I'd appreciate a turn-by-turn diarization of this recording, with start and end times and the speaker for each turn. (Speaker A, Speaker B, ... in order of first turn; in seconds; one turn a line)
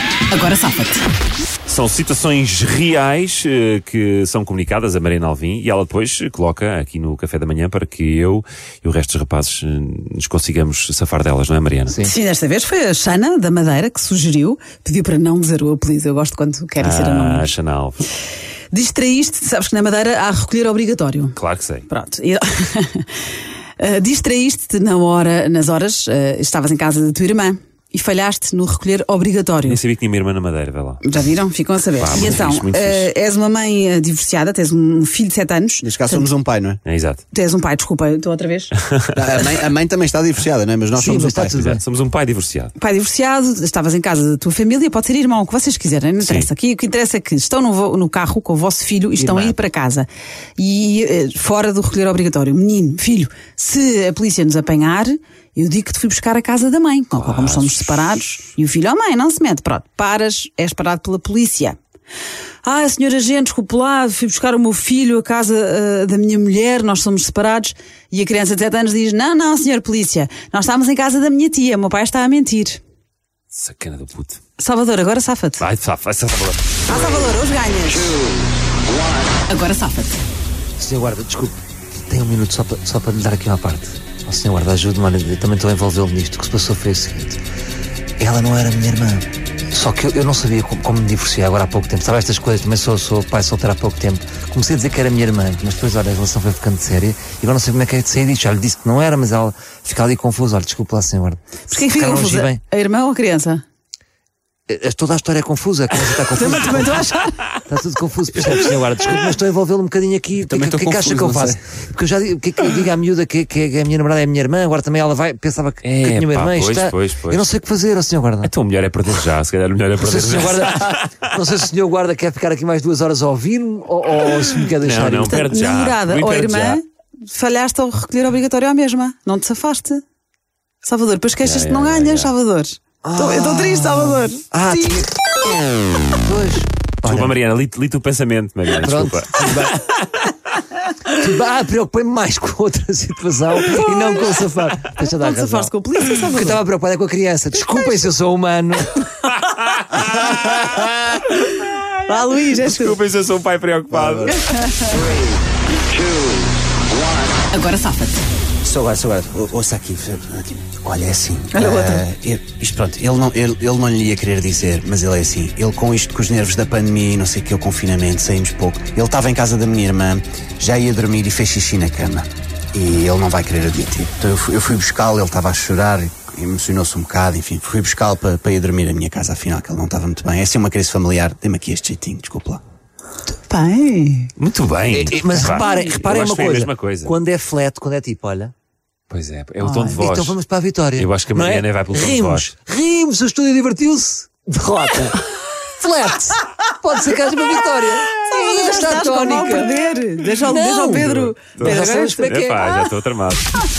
Speaker A: 0.3-1.0
Speaker B: 1.7-12.0
Speaker C: 11.9-12.1
Speaker A: 12.0-17.5
Speaker B: 16.8-18.1
Speaker A: 18.7-21.4
Speaker B: 21.4-21.9
Speaker A: 21.9-23.1
Speaker A: 23.8-29.8
Speaker B: 29.7-31.1
Speaker A: 31.0-36.3
Speaker B: 32.0-33.1
Speaker D: 35.8-36.8
Speaker B: 36.8-37.2
Speaker A: 37.3-38.7
Speaker D: 39.1-41.8
Speaker C: 40.9-41.8
Speaker B: 41.7-42.7
Speaker A: 42.8-61.8
Speaker B: 46.2-46.5
Speaker C: 49.2-49.5
Speaker B: 57.1-58.1
Speaker A: 62.6-72.8
Speaker B: 73.5-74.4
Speaker A: 74.6-75.7
Speaker B: 75.6-76.8
Speaker A: 76.8-78.2
Speaker A: 79.4-80.2
Speaker C: 80.8-81.5
Speaker C: 82.1-87.4
Speaker C: 88.2-102.6
Speaker A: 101.7-103.6
Speaker C: 104.7-107.1
Speaker A: 106.3-107.4
Speaker C: 107.6-118.5
Speaker B: 110.5-111.5
Speaker B: 115.8-117.5
Speaker B: 118.4-121.3
Speaker C: 120.0-125.6
Speaker B: 124.8-126.8
Speaker A: 125.3-130.0
Speaker A: 130.8-135.1
Speaker B: 131.4-132.3
Speaker C: 133.0-135.1
Speaker C: 136.2-137.3
Speaker B: 137.0-139.8
Speaker C: 138.8-140.1
Speaker C: 141.1-149.1
Speaker A: 145.1-146.6
Speaker B: 149.3-154.6
Speaker C: 150.4-150.8
Speaker A: 152.0-153.0
Speaker A: 154.3-155.1
Speaker A: 157.5-158.2
Speaker D: 158.6-182.6
Speaker A: 161.5-162.1
Speaker A: 183.3-184.3
Speaker B: 184.4-187.2
Speaker C: 184.9-188.5
Speaker B: 189.1-190.4
Speaker C: 189.6-202.8
Speaker B: 191.0-192.5
Speaker A: 198.2-202.2
Speaker B: 200.9-203.7